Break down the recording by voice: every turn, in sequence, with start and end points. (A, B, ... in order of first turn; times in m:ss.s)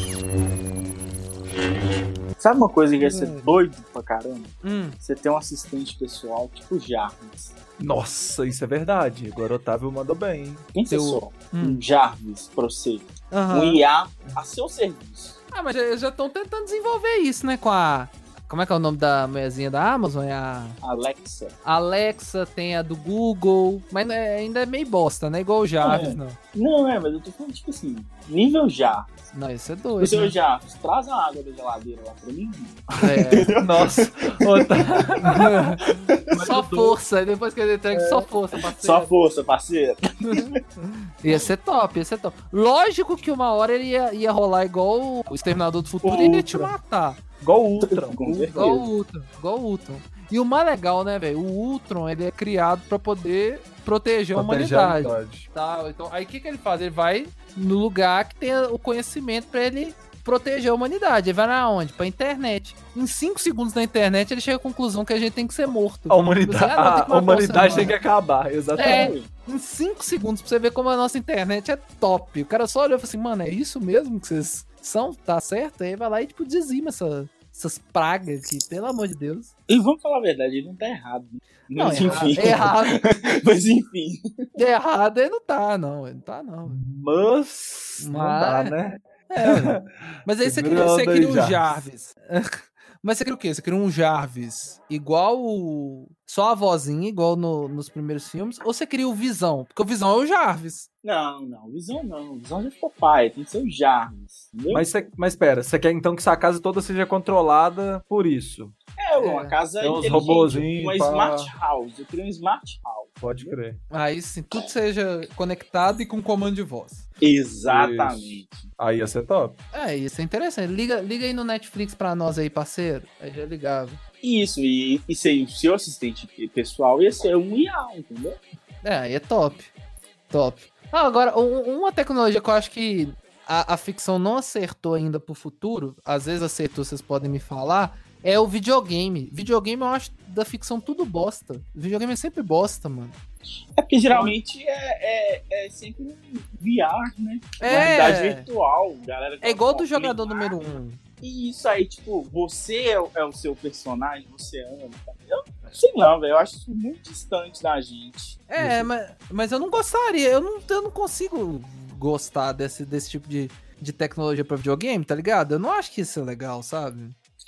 0:02.4-0:07.6 A
0:03.0-0:03.5 B
0:04.6-0:05.0 B
0:07.8-0:10.7 C
0:10.8-0:15.4 A
0:10.9-0:11.8 B
0:13.3-0:13.8 B
0:15.5-0:20.8 B
0:20.8-0:21.6 A
0:21.6-0:26.4 B
0:25.8-0:29.2 A
0:29.3-0:30.3 B
0:30.0-0:36.4 A
0:33.0-0:33.5 B
0:33.6-0:35.8 C
0:35.3-0:35.8 B
0:36.3-0:37.0 C
0:36.3-0:39.1 B
0:37.9-0:38.3 C
0:38.6-0:40.6 A
0:40.2-0:47.2 B
0:46.0-0:46.7 C
0:47.4-0:48.8 C
0:47.8-0:48.8 A
0:48.2-1:07.9 B
0:54.3-0:55.5 C
1:06.1-1:09.1 C
1:08.8-1:19.5 B
1:08.8-1:09.3 A
1:19.7-1:24.4 A
1:21.8-1:23.1 B
1:22.0-1:22.7 C
1:24.6-1:26.8 B
1:26.7-1:29.9 C
1:28.0-1:28.8 B
1:29.3-1:40.9 B
1:30.4-1:31.8 C
1:41.0-1:44.9 A
1:44.7-1:48.8 C
1:49.0-1:53.6 A
1:49.2-1:49.6 B
1:49.8-1:51.5 C
1:53.2-1:53.8 C
1:53.9-1:57.1 B
1:57.2-1:58.7 A
1:57.7-1:59.6 C
1:59.7-2:04.0 B
2:04.2-2:08.4 A
2:08.8-2:09.7 B
2:10.3-2:23.2 B
2:23.8-2:38.5 A
2:27.6-2:28.4 B
2:29.4-2:31.0 B
2:38.5-2:47.2 B
2:38.6-2:38.9 C